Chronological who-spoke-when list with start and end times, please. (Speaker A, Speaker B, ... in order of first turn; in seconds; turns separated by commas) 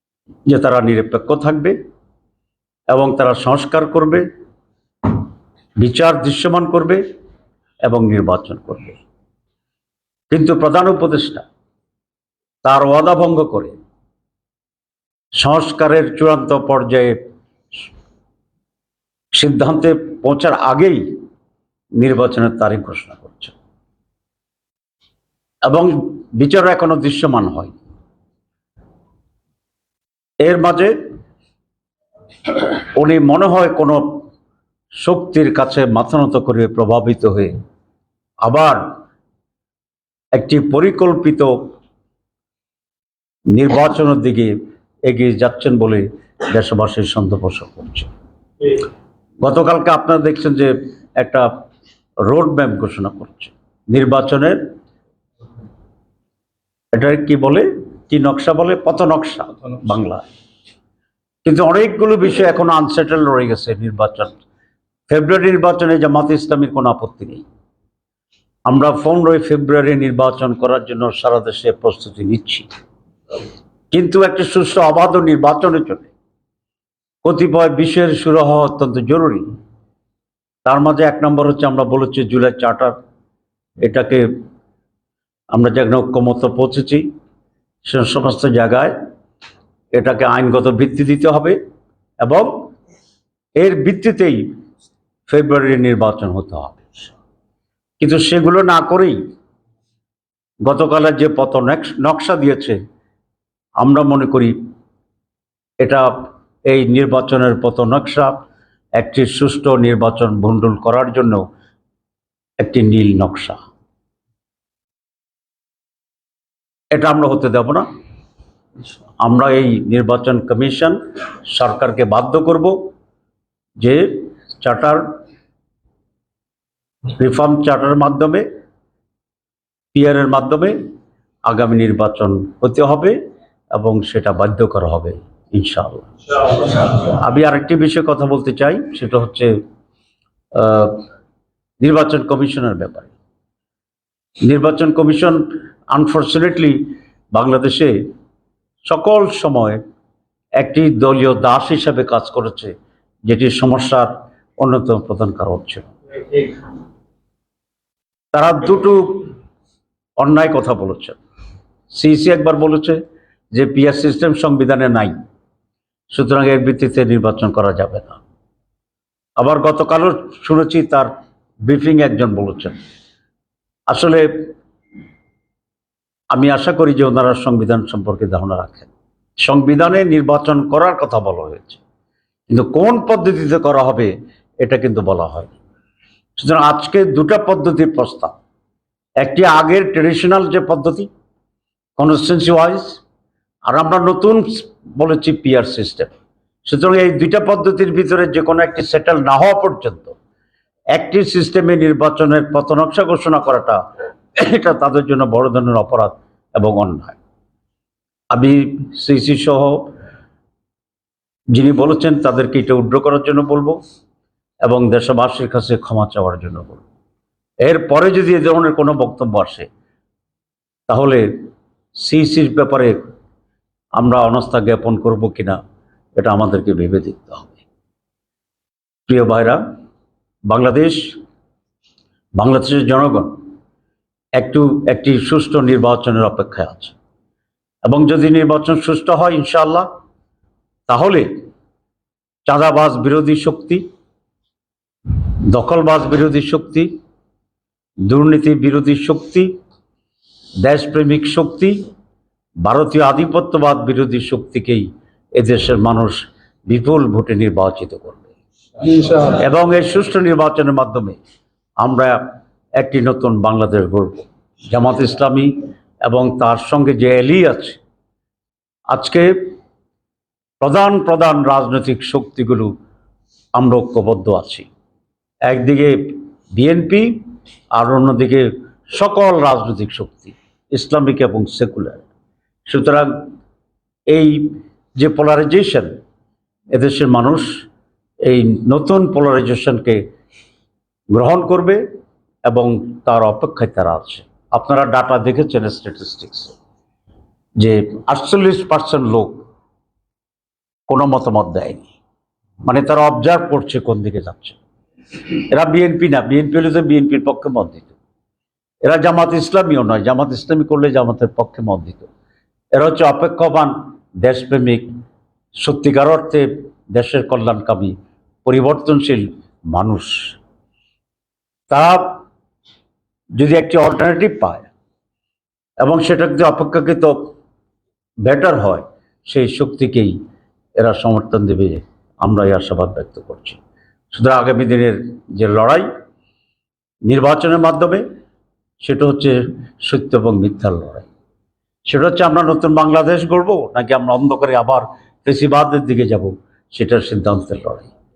Speaker A: 0.5-1.8, Speaker A: 2.9-4.2, Speaker A: 5.8-7.0, Speaker A: 7.8-9.0, Speaker A: 10.3-11.4, Speaker A: 12.6-13.8, Speaker A: 15.4-17.1, Speaker A: 19.3-21.0, Speaker A: 22.0-23.6, Speaker A: 25.6-27.7, Speaker A: 30.4-30.9, Speaker A: 32.9-34.0, Speaker A: 35.0-37.5, Speaker A: 38.4-38.8, Speaker A: 40.3-41.7, Speaker A: 43.5-44.5, Speaker A: 45.1-48.1, Speaker A: 49.4-51.5, Speaker A: 52.2-54.6, Speaker A: 56.9-60.3, Speaker A: 61.4-64.4, Speaker A: 65.1-67.4, Speaker A: 68.7-72.7, Speaker A: 73.9-76.1, Speaker A: 77.2-79.4, Speaker A: 80.6-82.9, Speaker A: 83.8-84.2, Speaker A: 85.5-87.1, Speaker A: 87.8-88.9, Speaker A: 89.9-91.6, Speaker A: 92.2-92.5, Speaker A: 93.5-94.4, Speaker A: 95.3-96.8, Speaker A: 98.0-99.2, Speaker A: 100.6-102.8, Speaker A: 103.8-104.5, Speaker A: 105.8-106.1, Speaker A: 106.7-108.3, Speaker A: 109.0-111.4, Speaker A: 112.6-113.6, Speaker A: 116.9-117.8, Speaker A: 119.2-122.8, Speaker A: 123.8-125.0, Speaker A: 127.1-128.5, Speaker A: 129.9-130.8, Speaker A: 131.5-133.2, Speaker A: 133.7-139.5, Speaker A: 140.6-141.0, Speaker A: 141.8-143.1, Speaker A: 144.4-146.8, Speaker A: 147.3-148.0, Speaker A: 148.9-149.8, Speaker A: 150.6-152.7, Speaker A: 153.3-156.6, Speaker A: 158.3-159.3, Speaker A: 160.2-161.2, Speaker A: 161.9-163.0, Speaker A: 163.5-165.2, Speaker A: 166.1-168.2, Speaker A: 169.4-171.1, Speaker A: 171.7-172.8, Speaker A: 173.9-174.2, Speaker A: 176.3-181.8, Speaker A: 182.5-185.5, Speaker A: 186.4-188.3, Speaker A: 189.2-191.1, Speaker A: 192.0-193.0, Speaker A: 193.7-196.1, Speaker A: 196.7-200.2, Speaker A: 200.9-203.8, Speaker A: 204.3-207.2, Speaker A: 208.3-209.9, Speaker A: 211.5-213.8, Speaker A: 214.6-216.8, Speaker A: 217.6-219.7, Speaker A: 220.9-221.2, Speaker A: 222.0-223.0, Speaker A: 224.0-225.6, Speaker A: 226.2-227.6, Speaker A: 229.1-229.6, Speaker A: 230.5-231.1, Speaker A: 232.4-233.4, Speaker A: 234.4-237.0, Speaker A: 237.8-239.9, Speaker A: 240.9-241.3, Speaker A: 242.5-243.8, Speaker A: 245.2-246.9, Speaker A: 248.1-249.5, Speaker A: 250.6-251.8, Speaker A: 252.6-258.3, Speaker A: 258.9-261.2, Speaker A: 261.8-262.2, Speaker A: 262.8-267.8, Speaker A: 268.9-269.3, Speaker A: 270.6-272.7, Speaker A: 273.6-274.7, Speaker A: 275.4-276.0, Speaker A: 276.5-277.2, Speaker A: 277.7-282.0, Speaker A: 282.7-283.1, Speaker A: 284.1-284.4, Speaker A: 285.0-285.9, Speaker A: 286.7-287.5, Speaker A: 288.2-290.0, Speaker A: 291.1-291.8, Speaker A: 292.5-296.5, Speaker A: 297.6-299.4, Speaker A: 300.9-301.9, Speaker A: 302.6-304.6, Speaker A: 305.2-307.9, Speaker A: 308.8-312.1, Speaker A: 312.8-314.9, Speaker A: 315.6-317.9, Speaker A: 318.4-320.4, Speaker A: 321.7-322.2, Speaker A: 323.4-324.7, Speaker A: 325.8-327.2, Speaker A: 328.2-330.1, Speaker A: 330.8-333.6, Speaker A: 334.1-335.9, Speaker A: 337.1-338.0, Speaker A: 338.8-341.1, Speaker A: 341.9-347.9